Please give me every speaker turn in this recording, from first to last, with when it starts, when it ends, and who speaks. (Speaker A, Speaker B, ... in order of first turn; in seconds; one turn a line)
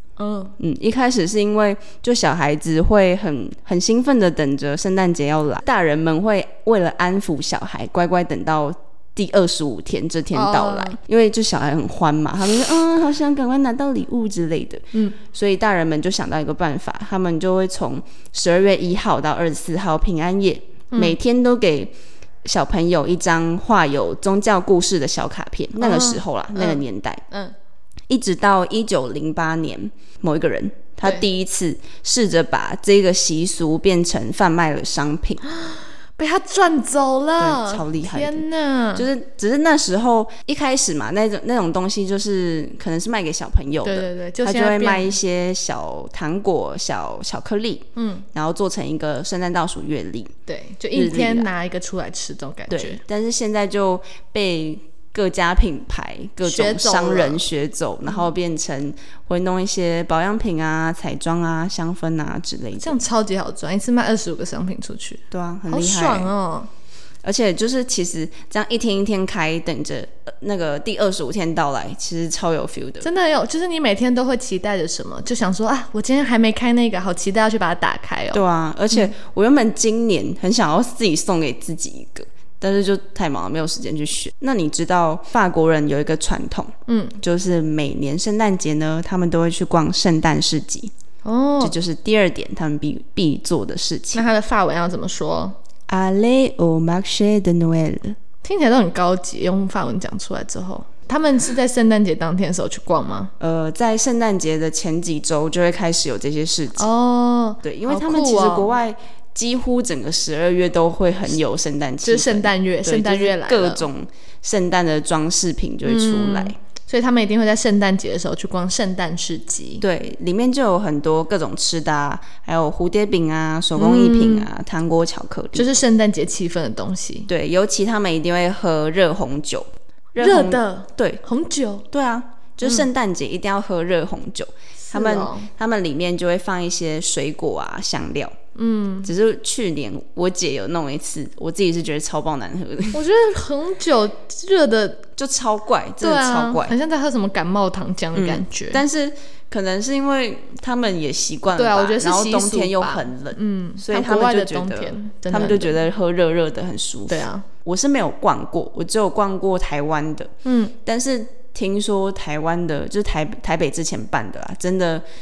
Speaker A: 0.2-0.5
Speaker B: 0.6-21.9
Speaker A: 10.3-11.0
Speaker B: 22.4-27.2
Speaker A: 25.8-27.5
Speaker B: 28.1-35.4
Speaker A: 35.4-39.1
Speaker B: 37.4-50.3
Speaker A: 43.8-45.1
Speaker A: 48.0-48.2
Speaker A: 50.5-53.0
Speaker B: 50.9-51.5
Speaker B: 52.7-63.0
Speaker A: 56.4-57.4
Speaker A: 62.8-66.7
Speaker B: 65.3-66.3
Speaker B: 67.2-73.1
Speaker A: 73.0-78.4
Speaker B: 78.3-90.9
Speaker A: 86.9-87.2
Speaker A: 91.2-91.8
Speaker B: 91.6-94.2
Speaker A: 94.1-95.5
Speaker B: 95.9-98.2
Speaker A: 98.4-103.3
Speaker B: 103.4-106.9
Speaker A: 106.8-108.7
Speaker B: 107.6-116.6
Speaker A: 112.0-113.8
Speaker A: 115.8-119.8
Speaker B: 119.8-125.7
Speaker A: 123.8-124.5
Speaker A: 125.5-127.3
Speaker B: 127.3-131.2
Speaker A: 130.2-131.9
Speaker B: 131.9-138.3
Speaker A: 134.8-135.5
Speaker A: 138.6-139.1
Speaker B: 139.0-143.0
Speaker A: 142.9-145.1
Speaker B: 145.2-146.7
Speaker A: 146.0-148.8
Speaker B: 148.1-160.3
Speaker A: 151.6-155.8
Speaker A: 157.1-157.4
Speaker A: 160.4-160.7
Speaker B: 160.8-165.0